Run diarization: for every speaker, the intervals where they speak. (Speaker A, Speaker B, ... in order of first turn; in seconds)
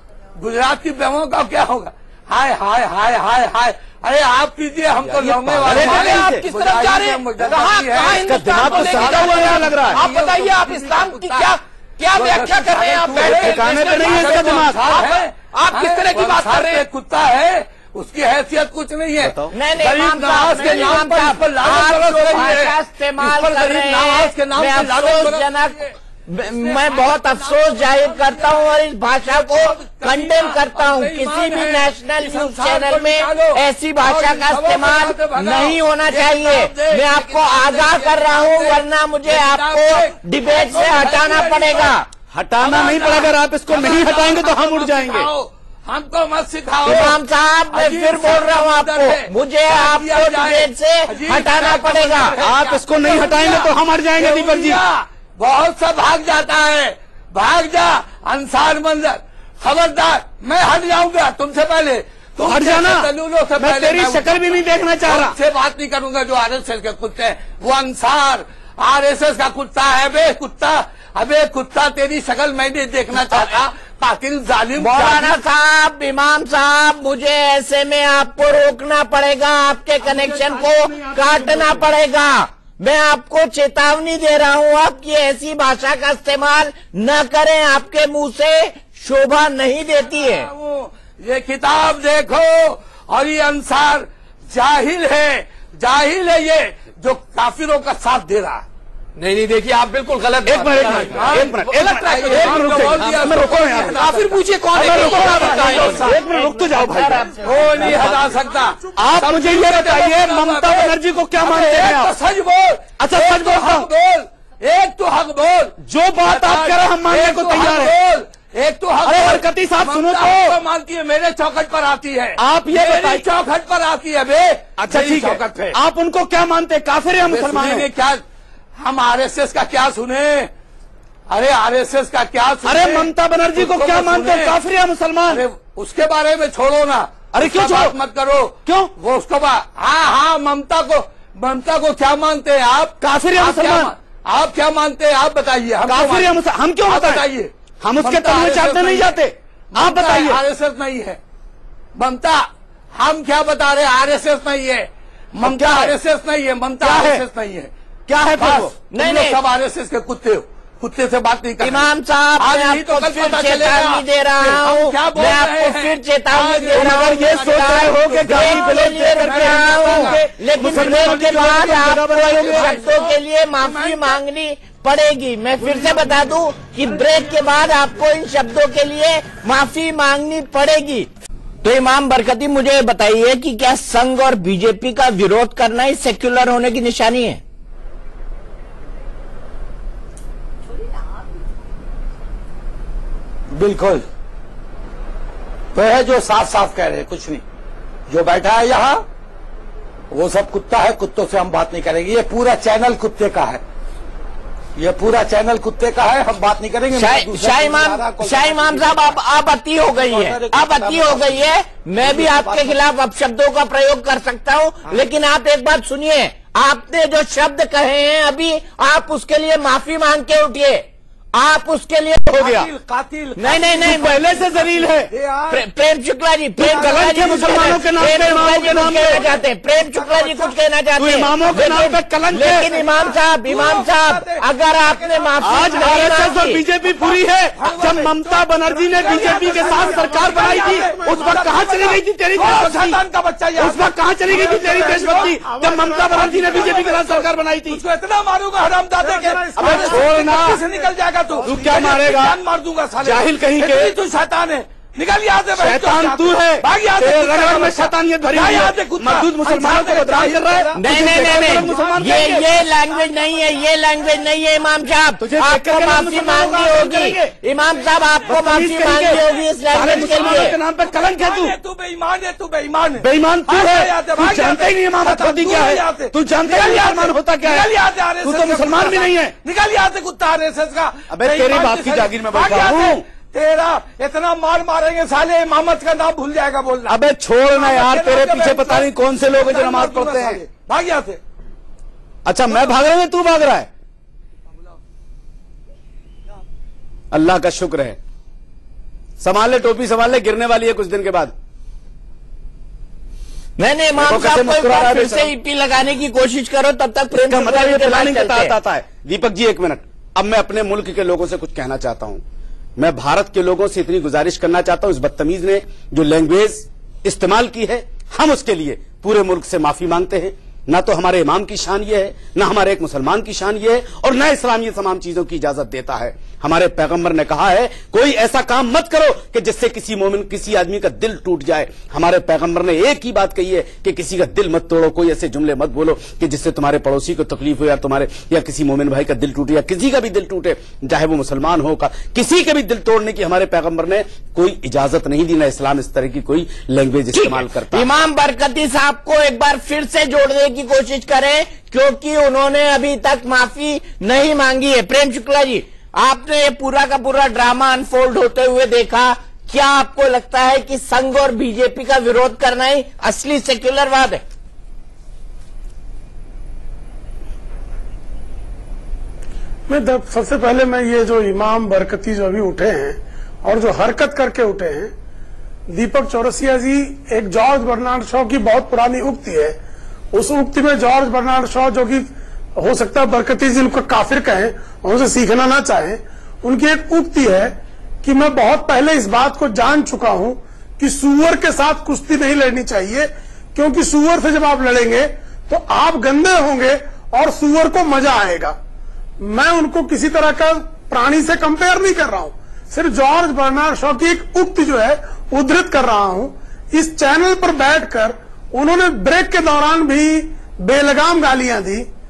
Speaker A: 0.4-11.6, 12.1-42.0, 42.6-75.4, 80.0-81.9, 90.0-98.6, 101.1-106.1, 107.4-125.8, 127.2-128.2, 128.8-130.5, 131.3-134.6, 135.3-149.1, 149.7-151.2, 152.0-152.4, 152.9-157.7, 158.4-174.2, 175.6-176.1, 193.5-194.0, 195.7-197.4, 198.1-199.0, 200.1-203.6, 204.8-209.2, 209.9-211.5, 212.0-212.8, 222.4-225.6, 226.6-230.5, 232.4-236.3, 236.8-245.4, 246.1-262.4, 269.8-287.0, 287.5-291.2
Speaker B: 5.0-6.5, 8.0-10.0, 13.2-14.8, 19.2-19.5, 42.3-45.3, 52.4-54.8, 62.4-65.4, 100.4-104.2, 104.7-108.4, 109.0-112.2, 113.0-113.9, 115.8-117.9, 119.0-120.6, 122.4-123.2, 124.8-127.9, 132.6-135.4, 137.3-138.0, 138.6-138.9, 143.0-143.9, 145.8-147.3, 147.8-150.4, 155.4-155.9, 156.8-157.2, 158.1-158.7, 166.7-172.8, 222.3-222.7, 223.8-225.1, 226.6-229.2, 230.9-232.7, 235.4-243.0, 243.6-247.8, 249.6-250.6, 251.4-252.4, 253.0-253.9, 255.5-262.5, 265.2-267.4, 268.2-271.6, 273.0-279.3, 281.1-283.0, 286.9-290.4, 292.2-293.7, 297.1-298.0, 299.2-301.3, 304.0-305.3, 307.2-312.2, 312.8-347.9
Speaker C: 5.6-16.8, 99.2-106.1
Speaker D: 19.5-42.0, 46.8-52.3, 74.8-90.5, 105.1-108.0, 158.9-159.4, 161.6-181.1, 181.6-187.4, 206.9-222.6, 223.4-224.2, 225.5-236.6, 260.8-270.6, 303.6-308.5, 347.1-364.2
Speaker E: 107.4-108.9, 238.9-241.4, 244.3-247.0, 249.0-250.8, 369.7-374.9, 375.7-379.6, 380.1-398.6, 399.2-411.9